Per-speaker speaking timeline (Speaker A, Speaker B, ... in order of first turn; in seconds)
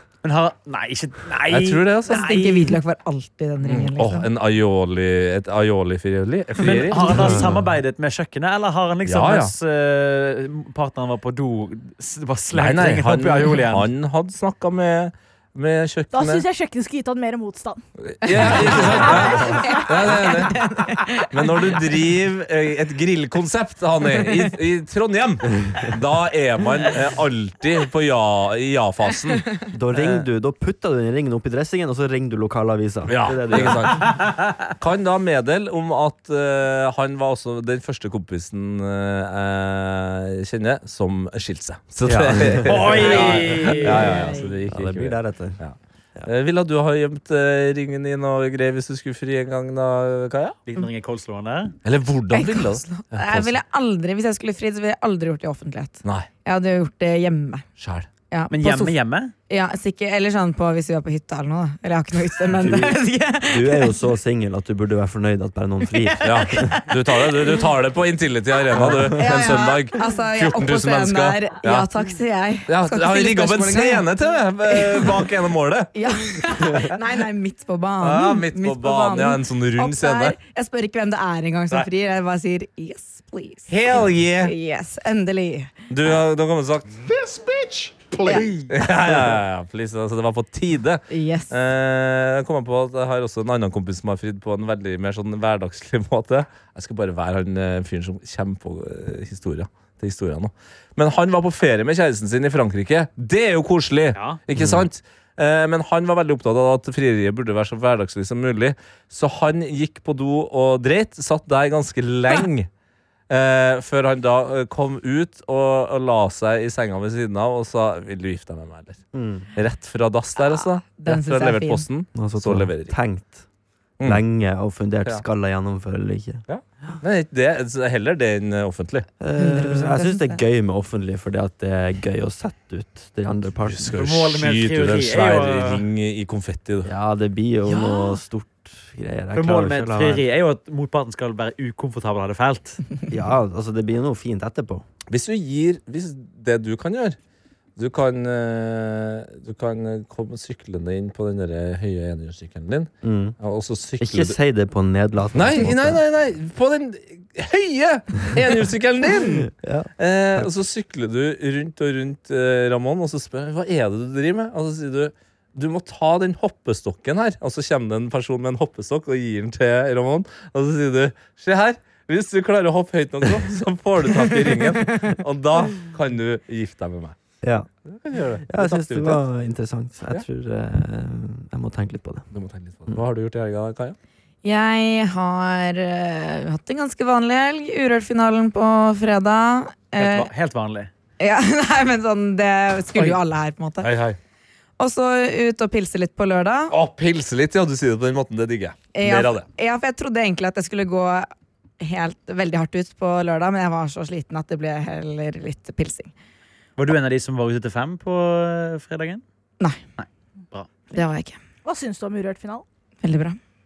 Speaker A: 0.2-2.8, 6.6-13.9, 42.6-44.3, 50.7-51.8, 58.5-59.3, 133.9-135.8, 139.3-142.8, 190.0-190.9, 206.8-209.2, 210.0-210.7
Speaker B: 1.5-2.2, 3.6-7.5, 9.1-9.5, 12.5-16.4, 18.0-20.6, 21.3-30.3, 33.1-50.6, 51.9-53.6, 57.8-58.1, 66.2-71.9, 72.7-76.4, 78.0-80.4, 83.7-84.5, 85.9-87.1, 88.7-112.7, 113.3-119.0, 119.5-123.0, 126.5-129.1, 133.7-136.9, 145.1-147.2, 147.8-154.4, 155.3-177.2, 177.9-179.2, 182.3-184.0, 193.8-194.2, 196.7-199.5
Speaker C: 2.1-4.3, 18.4-21.7, 43.6-44.5, 52.3-57.6, 58.3-59.0, 59.5-64.0, 66.0-67.4, 69.1-74.1, 74.7-75.2, 76.0-85.7, 88.2-88.5, 91.1-91.5, 120.4-121.8, 129.4-130.4, 184.4-190.3, 191.2-193.9, 194.8-196.7, 198.9-201.3, 201.8-206.1, 210.9-211.4, 213.0-213.4
Speaker D: 7.0-7.7, 29.7-34.1, 42.0-45.6, 62.5-66.8, 68.7-69.4, 104.5-104.9, 119.1-119.5, 122.2-123.4, 124.0-126.5, 129.2-134.0, 136.8-140.2, 143.1-144.9, 153.0-153.4, 154.0-156.0, 159.2-160.5, 177.4-177.7, 178.5-182.3
Speaker E: 16.1-17.8, 18.5-20.6, 211.7-212.7